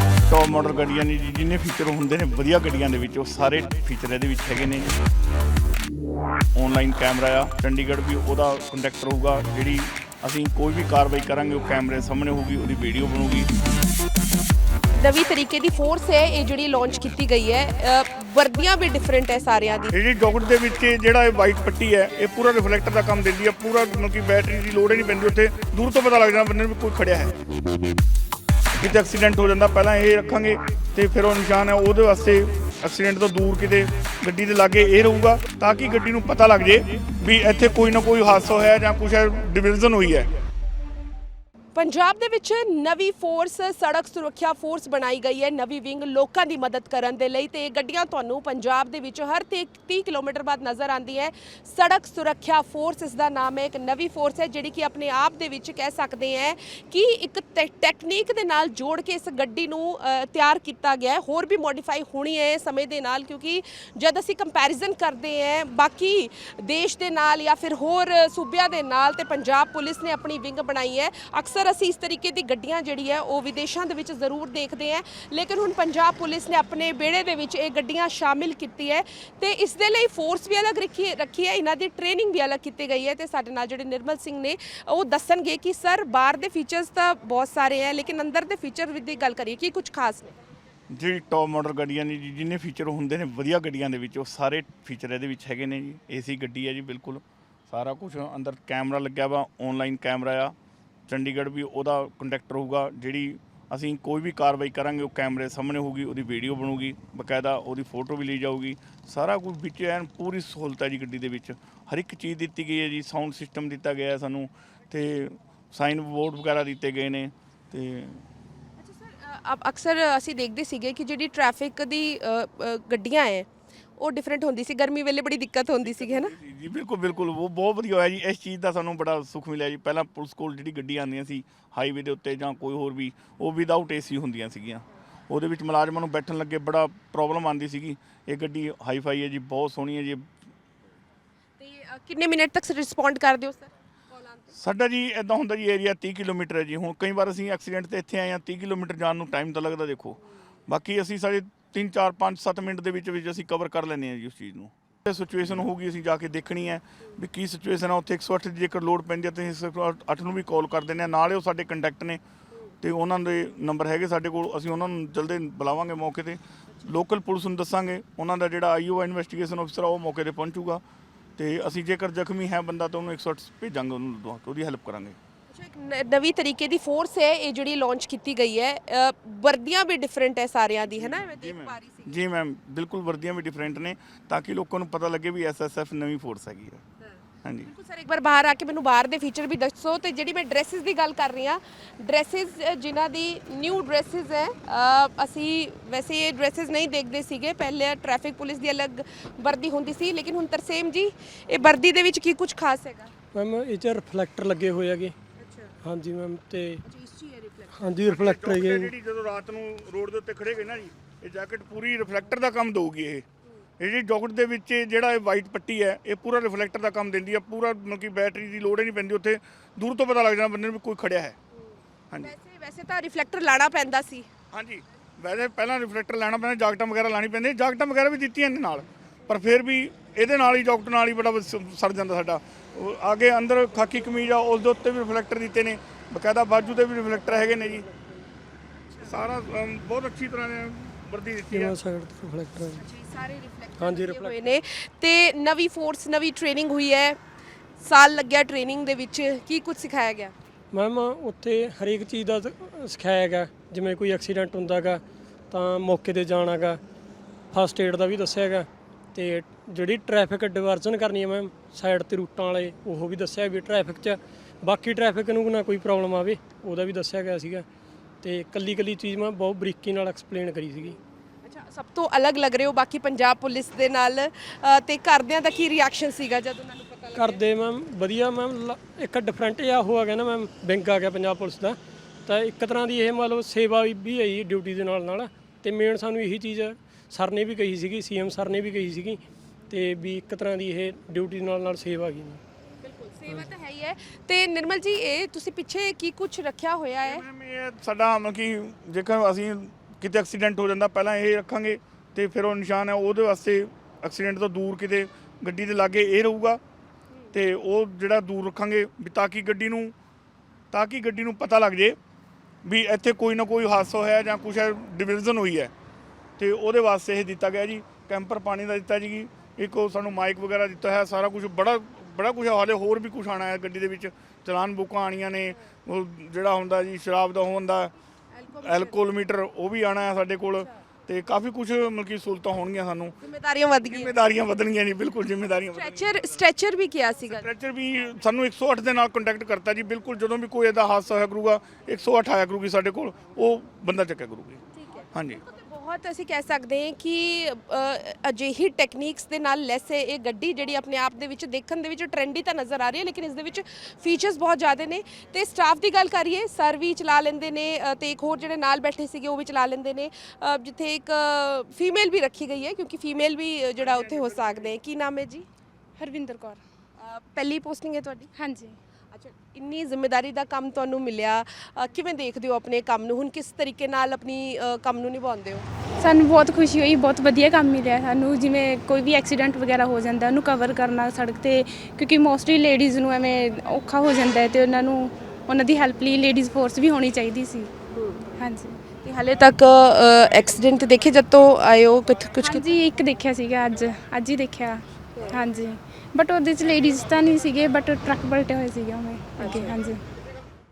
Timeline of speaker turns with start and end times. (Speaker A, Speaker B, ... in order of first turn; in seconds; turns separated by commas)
Speaker A: 0.3-5.0, Speaker A: 6.5-13.5, Speaker B: 14.9-19.9, Speaker A: 19.9-27.4, Speaker A: 28.8-40.3, Speaker B: 41.8-90.3, Speaker A: 90.9-100.5, Speaker A: 101.1-118.2, Speaker B: 118.8-123.5, Speaker B: 124.0-126.3, Speaker A: 125.8-140.3, Speaker B: 141.6-144.6, Speaker A: 144.6-162.2, Speaker A: 162.8-170.8, Speaker B: 166.7-166.9, Speaker A: 171.4-175.2, Speaker B: 175.5-182.3, Speaker A: 180.9-186.8, Speaker B: 187.0-203.1, Speaker A: 187.4-187.7, Speaker C: 203.3-205.2, Speaker B: 205.4-205.8, Speaker C: 205.8-206.8, Speaker B: 206.8-207.8, Speaker C: 207.8-208.9, Speaker A: 208.1-213.2, Speaker A: 213.8-221.4, Speaker B: 221.6-224.3, Speaker A: 224.5-237.9, Speaker C: 237.3-238.1, Speaker A: 239.1-241.8, Speaker C: 241.5-242.8, Speaker B: 242.7-247.2, Speaker C: 243.8-244.6, Speaker B: 247.8-250.3, Speaker C: 250.7-256.8, Speaker C: 257.5-267.7, Speaker C: 268.2-271.0, Speaker B: 271.4-277.4, Speaker C: 277.1-292.4, Speaker B: 292.8-297.3, Speaker A: 297.0-306.6, Speaker A: 307.3-309.9, Speaker A: 310.7-312.0, Speaker A: 312.6-315.7, Speaker A: 316.4-327.9, Speaker B: 328.3-329.1, Speaker A: 328.6-333.2, Speaker B: 333.2-334.1, Speaker A: 333.8-336.2, Speaker B: 335.7-337.5, Speaker A: 337.3-344.6, Speaker B: 344.8-365.5, Speaker A: 345.1-345.4, Speaker A: 363.8-364.7, Speaker D: 366.0-366.6, Speaker B: 367.0-368.3, Speaker D: 368.4-368.8, Speaker B: 369.1-375.7, Speaker D: 376.0-387.7, Speaker B: 387.9-388.3, Speaker D: 388.4-388.8, Speaker B: 389.0-392.7, Speaker D: 392.4-400.0, Speaker B: 399.4-399.8